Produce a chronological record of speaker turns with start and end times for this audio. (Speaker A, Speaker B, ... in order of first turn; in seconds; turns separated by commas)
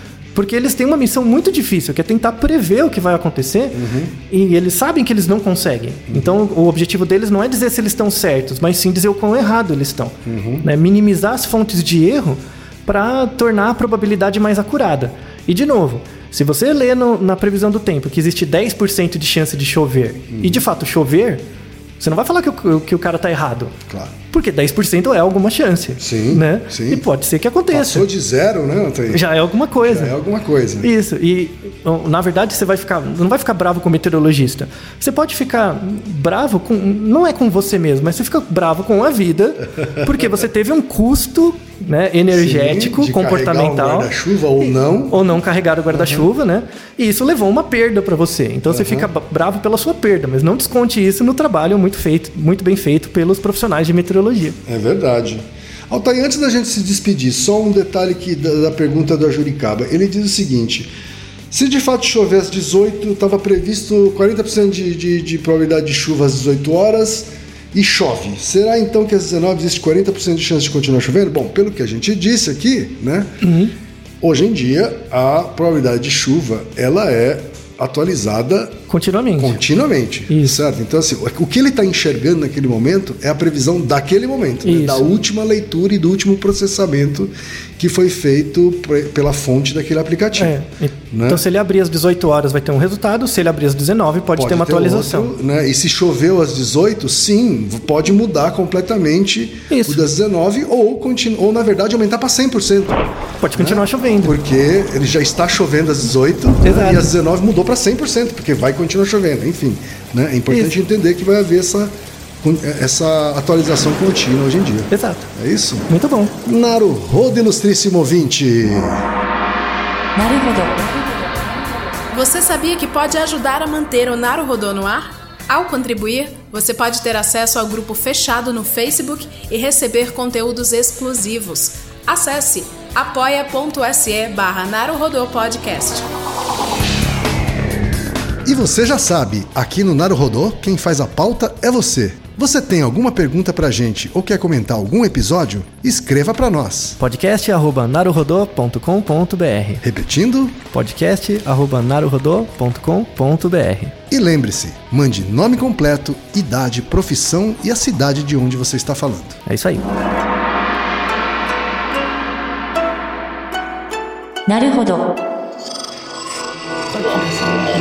Speaker A: 0.3-21.4, Speaker B: 3.7-4.1, Speaker B: 6.1-6.4, Speaker B: 10.2-10.7, Speaker B: 20.3-20.6, Speaker A: 22.0-23.8, Speaker A: 24.3-28.1, Speaker B: 26.0-27.1, Speaker B: 27.7-30.9, Speaker A: 29.1-30.1, Speaker A: 30.8-44.1, Speaker B: 42.3-45.2, Speaker A: 44.6-54.6, Speaker B: 45.9-46.3, Speaker B: 48.7-49.1, Speaker B: 54.7-60.9, Speaker B: 61.5-73.3, Speaker A: 73.4-73.7, Speaker B: 74.2-78.8, Speaker A: 78.9-79.6, Speaker B: 79.4-90.5, Speaker A: 80.3-80.5, Speaker A: 84.6-85.1, Speaker A: 90.4-95.3, Speaker B: 91.1-91.4, Speaker B: 94.4-115.9, Speaker A: 99.7-100.0, Speaker A: 103.4-104.3, Speaker A: 106.6-107.0, Speaker A: 114.9-115.3, Speaker A: 115.9-116.3, Speaker B: 116.4-119.0, Speaker C: 120.2-122.0, Speaker D: 122.1-136.1, Speaker B: 138.4-147.0, Speaker A: 147.0-149.8, Speaker B: 149.8-150.6, Speaker A: 150.7-153.9, Speaker B: 154.1-159.4, Speaker A: 159.5-159.9, Speaker C: 164.5-165.2